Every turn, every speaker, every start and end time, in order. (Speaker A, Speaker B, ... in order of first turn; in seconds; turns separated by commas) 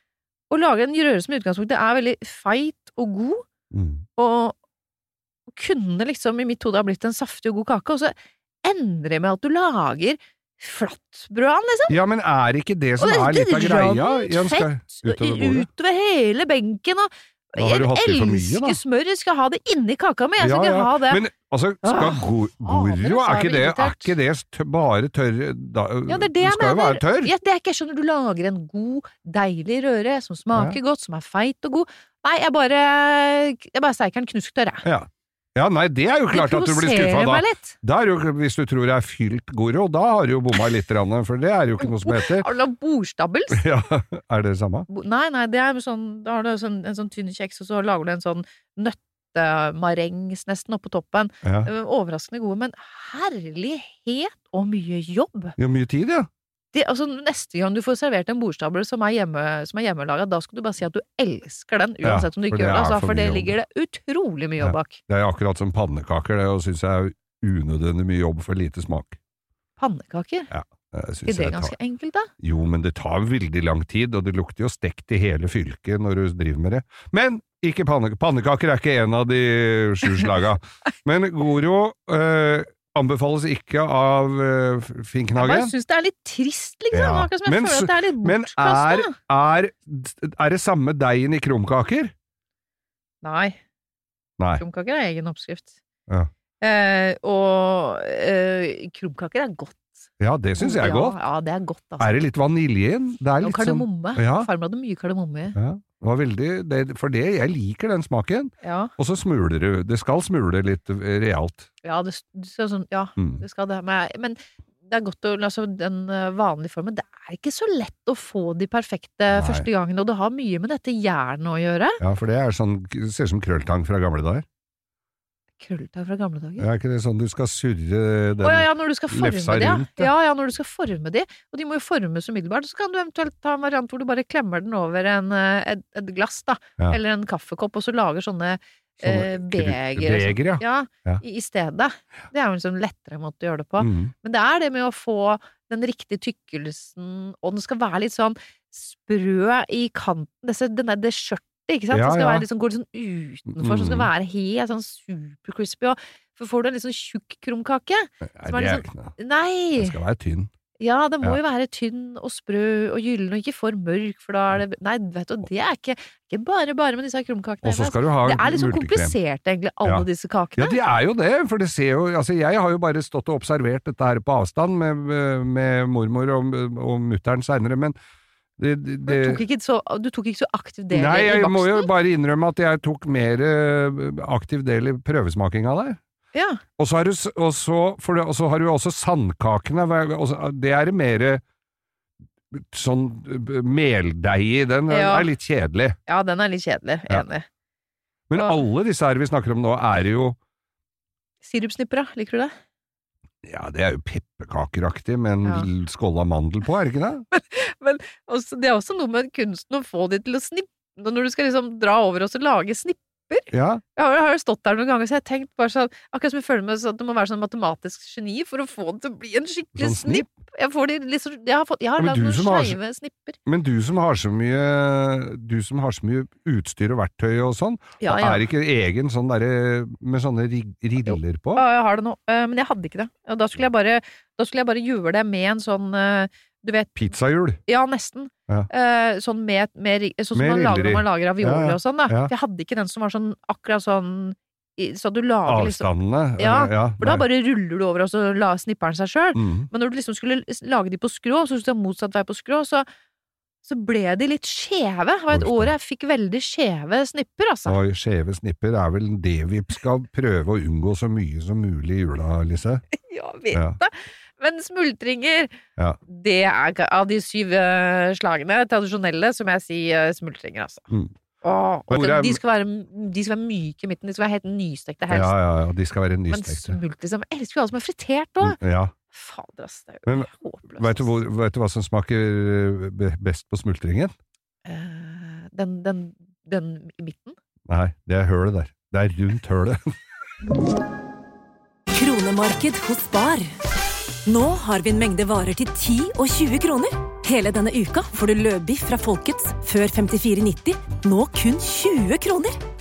Speaker A: 0.5-3.4, Speaker B: 3.7-4.0, Speaker A: 4.2-4.5, Speaker A: 5.5-12.0, Speaker B: 11.9-15.7, Speaker A: 13.0-21.2, Speaker B: 17.6-18.8, Speaker B: 20.4-27.3, Speaker A: 21.8-24.1, Speaker A: 26.1-34.9, Speaker B: 30.5-30.8, Speaker B: 34.8-42.5, Speaker A: 36.3-37.8, Speaker A: 41.8-43.6, Speaker B: 43.5-44.9, Speaker A: 44.9-55.5, Speaker B: 51.4-51.7, Speaker B: 55.6-56.3, Speaker A: 56.7-65.0, Speaker B: 62.0-63.5, Speaker B: 64.6-69.2, Speaker A: 69.8-70.5, Speaker B: 70.5-71.7, Speaker A: 71.2-72.3, Speaker B: 72.4-85.7, Speaker A: 85.4-89.2, Speaker B: 86.9-92.1, Speaker A: 93.2-93.6, Speaker A: 94.6-95.7, Speaker A: 96.6-102.2, Speaker B: 100.2-101.2, Speaker B: 102.0-104.5, Speaker A: 103.4-105.5, Speaker B: 105.5-111.7, Speaker A: 108.6-108.9, Speaker A: 111.8-122.0, Speaker B: 119.3-119.7, Speaker B: 122.0-124.4, Speaker A: 125.6-126.7, Speaker B: 126.6-130.1, Speaker A: 128.4-160.0, Speaker B: 139.0-141.2, Speaker B: 143.8-144.1, Speaker B: 151.9-152.4, Speaker B: 153.5-154.1, Speaker B: 158.2-159.1, Speaker B: 159.8-160.5, Speaker A: 160.8-170.8, Speaker B: 167.6-169.2, Speaker B: 169.8-177.9, Speaker B: 178.6-179.4, Speaker A: 179.1-181.9, Speaker B: 180.9-186.0, Speaker A: 186.3-186.6, Speaker B: 186.8-191.4, Speaker B: 192.5-196.0, Speaker A: 194.9-195.3, Speaker A: 196.1-197.4, Speaker B: 198.3-200.4, Speaker A: 201.4-202.5, Speaker B: 203.4-207.2, Speaker A: 207.3-223.4, Speaker B: 213.5-213.8, Speaker B: 219.8-220.2, Speaker B: 222.0-222.8, Speaker B: 223.4-231.6, Speaker A: 228.0-228.4, Speaker A: 231.1-237.1, Speaker B: 236.9-237.6, Speaker A: 237.7-252.9, Speaker B: 240.3-242.3, Speaker B: 245.4-247.2, Speaker B: 249.3-249.7, Speaker A: 253.6-257.8, Speaker B: 255.3-255.7, Speaker B: 257.6-262.8, Speaker A: 263.0-265.5, Speaker B: 263.5-263.8, Speaker A: 266.1-270.8, Speaker A: 271.4-275.3, Speaker B: 271.9-272.4, Speaker B: 275.1-276.8, Speaker A: 276.3-278.6, Speaker B: 278.4-278.9, Speaker A: 279.1-281.2, Speaker B: 280.1-284.1, Speaker A: 284.6-287.4, Speaker B: 287.7-289.9, Speaker C: 291.9-293.6, Speaker C: 294.2-302.6